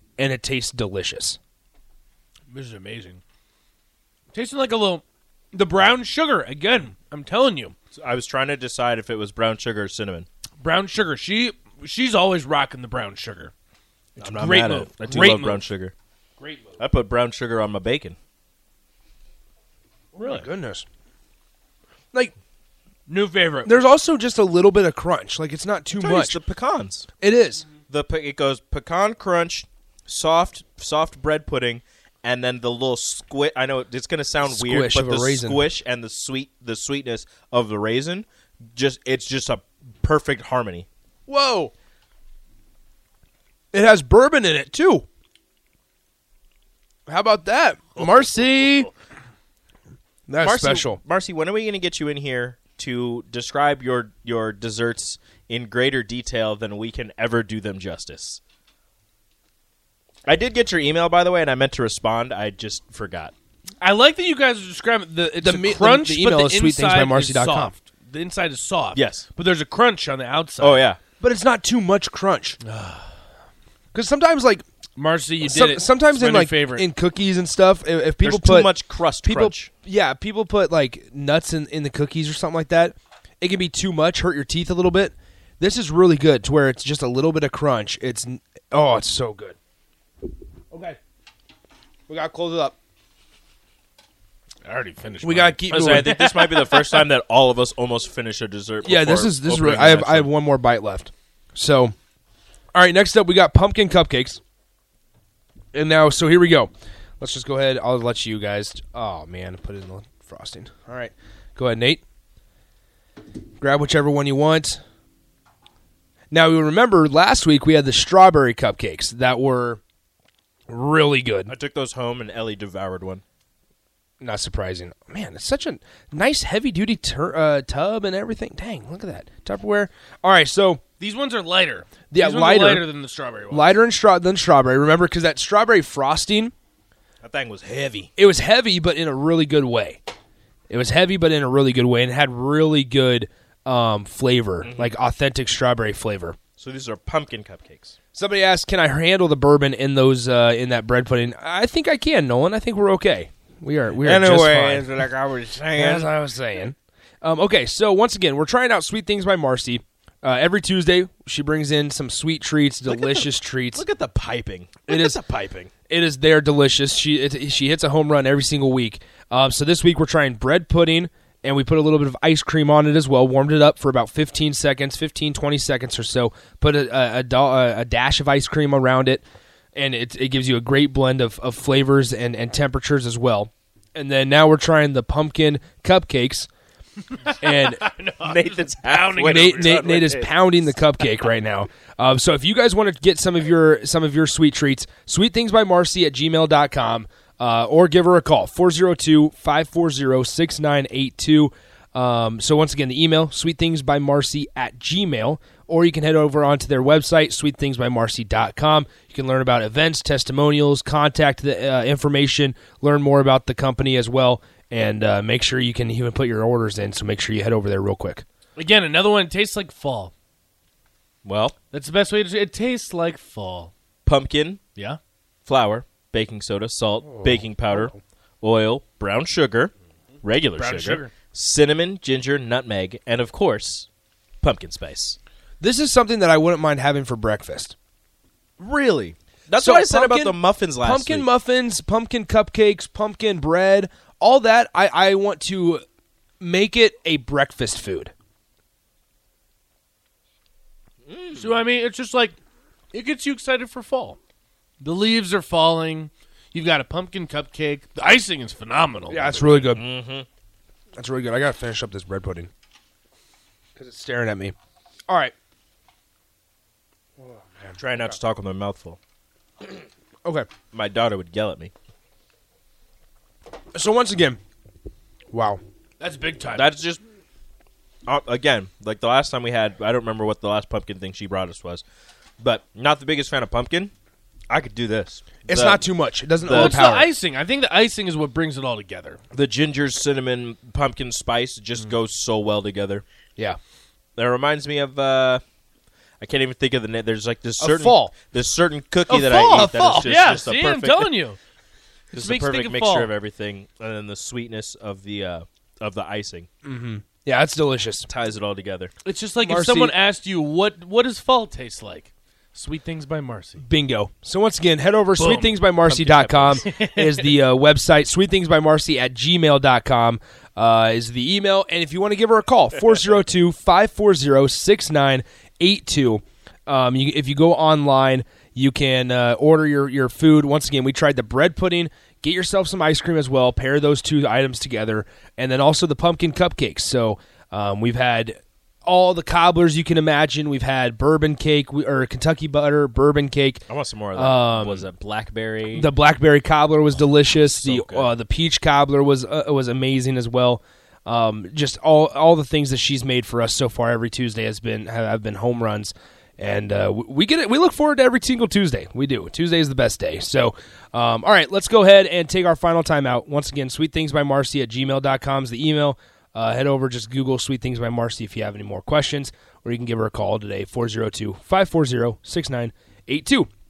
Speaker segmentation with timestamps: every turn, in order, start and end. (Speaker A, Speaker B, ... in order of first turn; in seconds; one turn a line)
Speaker A: 0.2-1.4
Speaker B: 2.5-3.2
Speaker B: 4.3-7.8
Speaker C: 7.9-10.3
Speaker B: 10.6-13.5
Speaker C: 14.2-15.9
Speaker B: 14.2-15.7
Speaker B: 16.4-16.8
Speaker C: 16.8-18.2
Speaker B: 20.1-20.5
Speaker A: 20.2-20.9
Speaker B: 23.1-23.8
Speaker A: 23.6-26.4
Speaker C: 25.9-27.1
Speaker A: 27.2-27.7
Speaker C: 27.9-40.9
Speaker A: 34.5-35.7
Speaker A: 41.3-41.7
Speaker A: 43.7-45.1
Speaker A: 47.1-48.9
Speaker A: 50.3-51.0
Speaker C: 50.4-58.4
Speaker C: 60.3-63.3
Speaker B: 63.8-70.9
Speaker A: 65.4-67.8
Speaker C: 69.0-69.3
Speaker C: 70.6-71.0
Speaker A: 71.2-72.6
Speaker B: 72.6-73.1
Speaker A: 73.9-74.7
Speaker B: 75.0-76.9
Speaker A: 75.4-78.7
Speaker C: 78.2-79.7
Speaker A: 79.2-89.6
Speaker A: 90.7-91.0
Speaker A: 92.1-92.8
Speaker B: 94.6-97.1
Speaker A: 95.2-96.2
Speaker C: 95.7-100.3
Speaker A: 98.8-101.9
Speaker A: 102.7-104.4
Speaker A: 105.7-112.0
Speaker A: 113.6-114.8
Speaker A: 116.3-119.8
Speaker A: 120.7-121.5
Speaker C: 121.5-123.2
Speaker A: 124.2-130.8
Speaker B: 131.0-133.8
Speaker A: 132.1-132.9
Speaker A: 133.5-136.5
Speaker C: 137.2-138.1
Speaker A: 138.2-140.0
Speaker A: 140.7-146.4
Speaker C: 144.6-144.9
Speaker C: 146.6-147.9
Speaker A: 148.2-154.9
Speaker C: 154.0-156.1
Speaker A: 155.7-163.8
Speaker C: 162.9-165.7
Speaker A: 164.9-165.2
Speaker A: 165.9-179.2
Speaker A: 179.8-186.5
Speaker B: 187.1-190.2
Speaker A: 187.4-187.9
Speaker C: 188.2-190.7
Speaker A: 189.2-218.2
Speaker B: 218.6-220.1
Speaker C: 221.2-221.6
Speaker B: 221.7-223.7
Speaker C: 224.1-224.7
Speaker C: 225.5-229.7
Speaker A: 227.2-227.9
Speaker C: 230.2-233.9
Speaker B: 230.4-231.1
Speaker C: 234.4-235.2
Speaker A: 235.6-237.8
Speaker C: 238.6-241.3
Speaker A: 239.5-245.8
Speaker A: 246.4-248.1
Speaker C: 251.1-251.6
Speaker B: 251.4-252.4
Speaker B: 252.9-254.2
Speaker B: 254.8-259.6
Speaker A: 259.1-259.8
Speaker C: 259.5-260.3
Speaker A: 261.0-262.5
Speaker A: 263.8-264.6
Speaker A: 265.1-265.3
Speaker A: 267.2-267.7
Speaker C: 267.8-269.0
Speaker C: 270.7-271.7
Speaker A: 273.7-274.4
Speaker A: 275.3-275.6
Speaker B: 276.0-276.7
Speaker C: 276.5-277.0
Speaker C: 278.1-281.8
Speaker C: 282.4-283.9
Speaker C: 284.5-285.9
Speaker A: 285.5-287.1
Speaker C: 286.4-286.8
Speaker B: 286.5-289.2
Speaker C: 289.3-293.0
Speaker C: 294.2-295.4
Speaker C: 296.2-301.1
Speaker A: 297.6-298.2
Speaker B: 299.1-301.4
Speaker C: 302.1-306.5
Speaker B: 302.1-303.1
Speaker A: 306.6-308.1
Speaker C: 308.1-308.9
Speaker B: 309.0-313.6
Speaker A: 309.4-309.9
Speaker A: 313.6-344.9
Speaker B: 315.2-315.7
Speaker C: 315.8-316.7
Speaker B: 316.6-317.4
Speaker C: 343.7-345.9
Speaker A: 345.7-373.5
Speaker C: 347.3-348.1